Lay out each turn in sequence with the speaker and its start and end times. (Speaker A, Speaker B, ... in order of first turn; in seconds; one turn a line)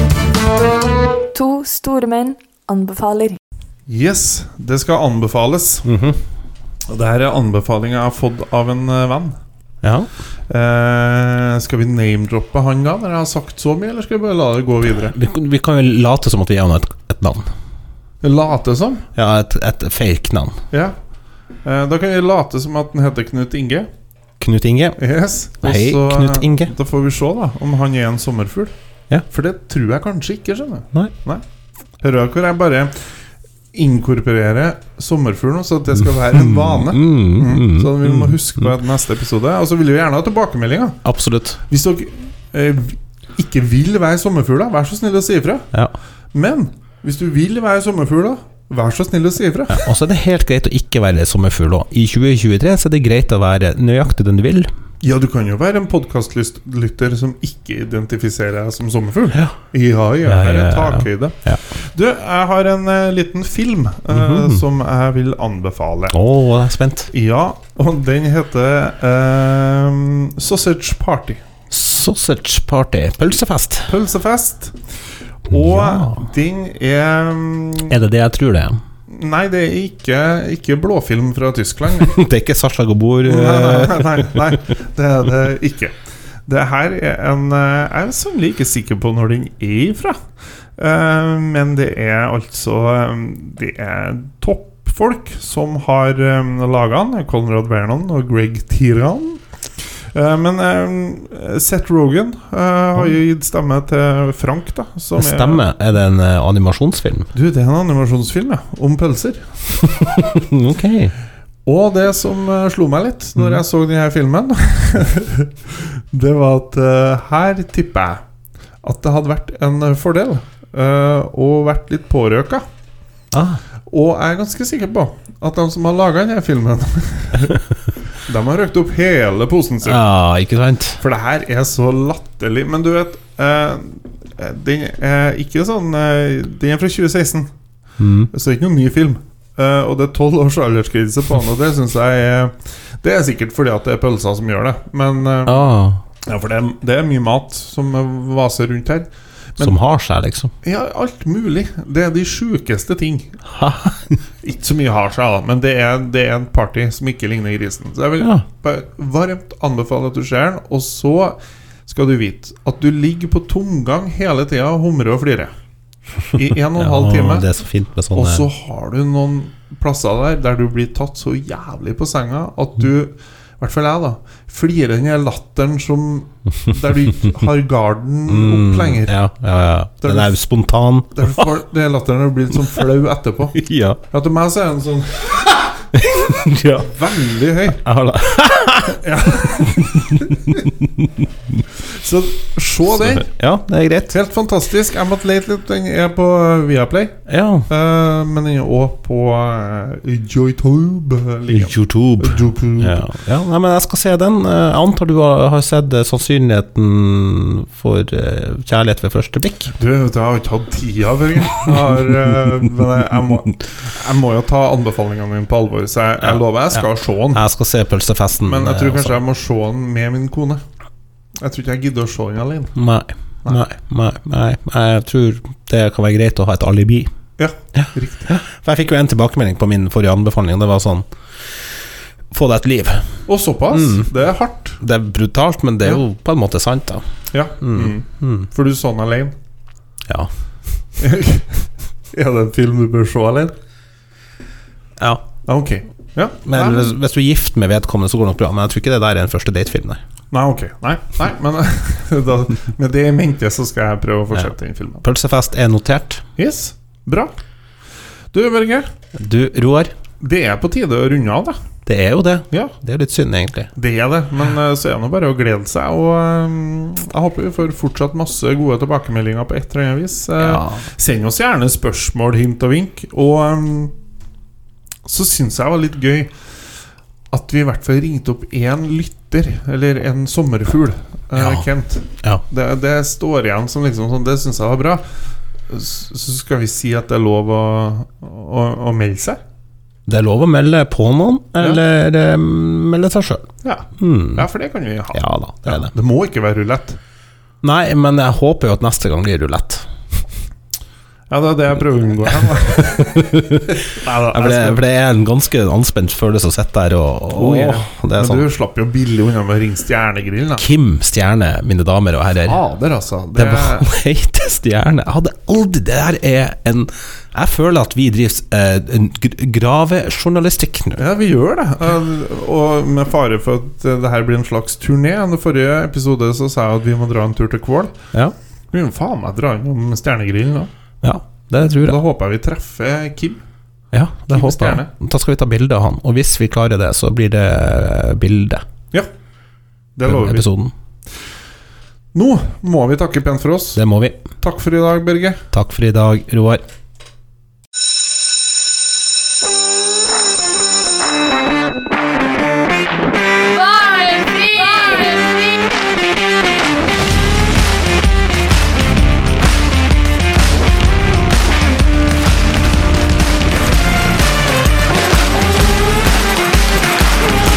Speaker A: 1.3-3.4
Speaker B: 3.9-5.9
Speaker C: 5.8-6.2
Speaker B: 6.9-9.4
Speaker C: 9.8-10.1
Speaker B: 10.5-15.2
Speaker C: 15.1-17.4
Speaker B: 18.2-19.1
Speaker C: 19.1-20.6
Speaker B: 20.7-21.0
Speaker B: 21.6-23.9
Speaker C: 24.4-25.0
Speaker B: 25.0-28.7
Speaker C: 25.6-26.7
Speaker B: 29.3-31.4
Speaker B: 32.0-33.0
Speaker B: 33.7-41.0
Speaker C: 36.0-38.7
Speaker C: 41.0-41.6
Speaker B: 41.7-45.7
Speaker B: 46.3-49.8
Speaker C: 49.7-54.7
Speaker B: 55.0-66.2
Speaker C: 60.2-61.6
Speaker C: 64.1-64.6
Speaker C: 66.1-67.1
Speaker B: 67.1-71.4
Speaker C: 71.7-73.9
Speaker B: 73.9-74.8
Speaker B: 75.5-77.9
Speaker C: 75.5-76.2
Speaker C: 77.9-78.8
Speaker B: 79.1-82.2
Speaker C: 82.0-84.5
Speaker B: 83.2-90.2
Speaker B: 90.8-105.6
Speaker C: 105.2-107.3
Speaker B: 107.3-109.6
Speaker C: 109.8-111.1
Speaker B: 111.7-118.2
Speaker B: 118.8-122.6
Speaker C: 123.3-123.6
Speaker B: 123.9-127.6
Speaker B: 128.2-130.0
Speaker C: 129.8-131.0
Speaker B: 131.0-137.5
Speaker C: 138.0-138.3
Speaker B: 138.3-145.7
Speaker C: 145.5-146.0
Speaker B: 146.2-149.8
Speaker C: 149.6-150.5
Speaker B: 150.6-153.3
Speaker C: 153.5-154.2
Speaker B: 154.4-165.5
Speaker C: 158.2-158.5
Speaker B: 166.3-167.5
Speaker C: 166.8-168.5
Speaker B: 168.1-179.2
Speaker C: 178.3-181.5
Speaker B: 180.0-180.3
Speaker B: 181.2-183.6
Speaker C: 183.6-184.0
Speaker B: 184.1-185.9
Speaker C: 185.9-186.9
Speaker B: 186.8-187.8
Speaker C: 187.8-191.2
Speaker B: 188.9-190.6
Speaker B: 191.8-193.3
Speaker C: 193.1-194.2
Speaker B: 194.1-197.2
Speaker C: 197.3-197.7
Speaker B: 197.7-203.1
Speaker C: 201.5-209.8
Speaker B: 209.8-217.4
Speaker C: 216.2-219.2
Speaker B: 218.4-220.6
Speaker B: 221.4-222.8
Speaker C: 222.8-227.1
Speaker B: 227.4-228.3
Speaker C: 227.8-231.1
Speaker C: 232.3-233.1
Speaker B: 233.3-234.8
Speaker C: 233.7-234.1
Speaker C: 234.8-237.0
Speaker B: 237.3-239.4
Speaker C: 237.6-238.5
Speaker B: 241.0-243.5
Speaker C: 245.0-245.2
Speaker B: 245.5-246.9
Speaker C: 246.4-250.0
Speaker B: 250.3-255.0
Speaker C: 255.0-256.2
Speaker B: 256.4-257.3
Speaker B: 258.3-258.9
Speaker C: 259.1-259.9
Speaker B: 260.2-261.6
Speaker C: 261.9-263.7
Speaker B: 263.8-273.9
Speaker C: 270.4-270.9
Speaker B: 275.0-276.4
Speaker B: 277.3-285.0
Speaker C: 281.4-281.7
Speaker B: 285.7-289.4
Speaker C: 290.1-293.5
Speaker B: 293.6-297.0
Speaker C: 294.0-294.5
Speaker C: 295.1-295.9
Speaker C: 297.6-299.9
Speaker B: 301.3-303.1
Speaker C: 302.8-308.4
Speaker B: 303.9-304.8
Speaker B: 307.3-310.6
Speaker C: 310.6-312.6
Speaker B: 312.5-313.9
Speaker C: 313.3-321.0
Speaker B: 321.0-328.0
Speaker B: 328.7-330.7
Speaker C: 331.0-332.0
Speaker B: 331.8-333.4
Speaker C: 333.9-338.6
Speaker B: 334.3-334.9
Speaker B: 340.0-340.5
Speaker C: 340.0-340.7
Speaker B: 342.1-343.8
Speaker C: 343.8-344.3
Speaker B: 344.4-345.4
Speaker C: 345.5-346.6
Speaker A: 353.4-355.8